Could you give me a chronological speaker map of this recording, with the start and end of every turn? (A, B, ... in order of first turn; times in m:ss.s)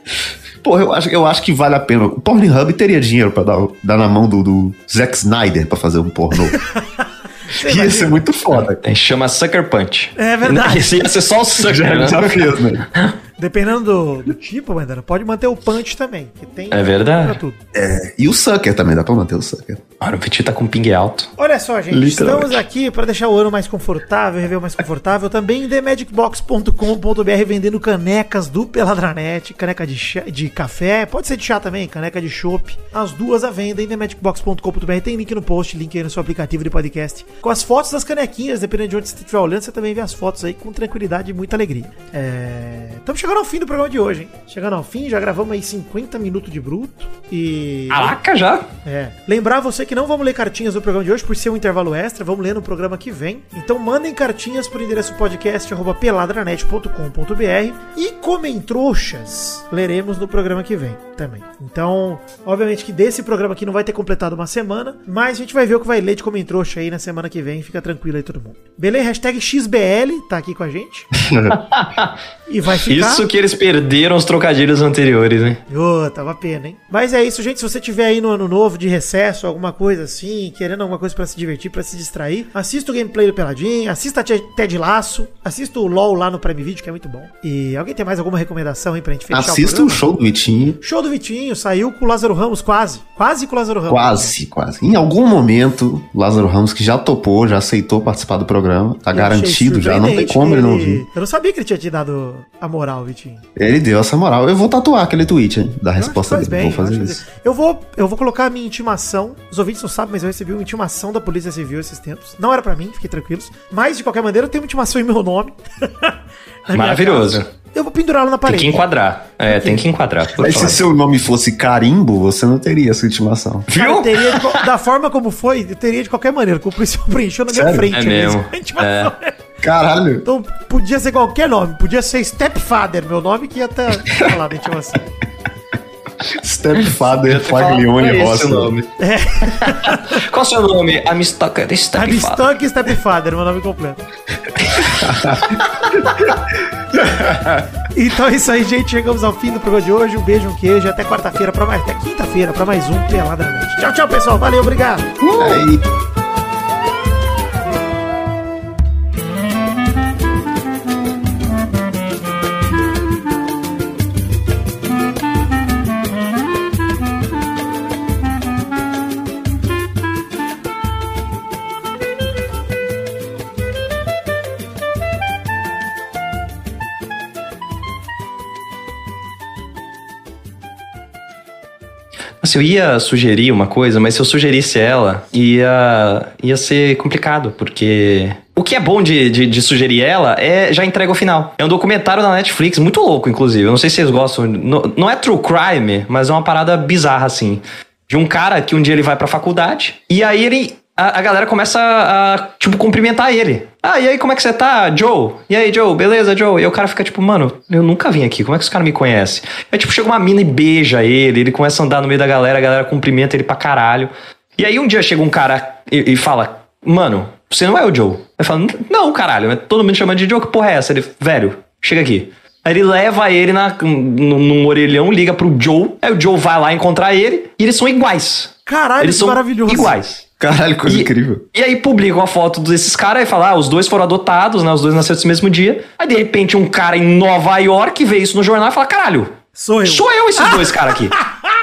0:00.6-0:06.6 A
0:07.5-0:08.2 B
0:07.6-0:08.8 A
0:08.8-0:12.4 C
0:10.2-0:11.1 B
0:11.6-0:12.9 A
0:13.4-0:17.6 B
0:16.7-0:17.4 C
0:17.7-0:19.8 A
0:20.0-0:21.3 C
0:21.4-0:48.2 B
0:21.9-0:22.6 C
0:47.9-0:48.7 C
0:48.8-1:11.1 B
1:11.2-1:11.6 A
1:11.5-1:12.1 C
1:12.5-1:13.3 B
1:12.9-1:15.6 C
1:15.7-1:30.1 B
1:29.3-1:30.8 A
1:30.8-1:34.4 B
1:33.9-1:41.0 A
1:39.1-1:43.4 B
1:43.6-1:47.2 A
1:46.0-1:56.2 B
1:56.7-1:58.8 B
1:56.7-1:57.5 C
1:58.5-2:00.8 C
1:59.5-2:00.8 B
2:00.4-2:03.7 A
2:03.7-2:04.6 C
2:03.8-2:09.4 B
2:07.5-2:07.9 A
2:07.9-2:09.1 C
2:09.6-2:10.3 A
2:10.2-2:15.0 B
2:16.2-2:18.7 A
2:17.1-2:18.9 C
2:19.0-2:20.2 B
2:19.4-2:22.4 C
2:22.0-2:24.0 B
2:24.6-2:25.4 C
2:25.0-2:25.6 A
2:26.9-2:27.6 A
2:27.9-2:35.2 B
2:35.2-2:35.8 A
3:02.4-3:50.2 C
3:48.7-3:50.0 B
3:50.4-3:51.4 A
3:50.9-3:59.3 C
3:59.6-4:01.5 B
3:59.8-4:01.2 C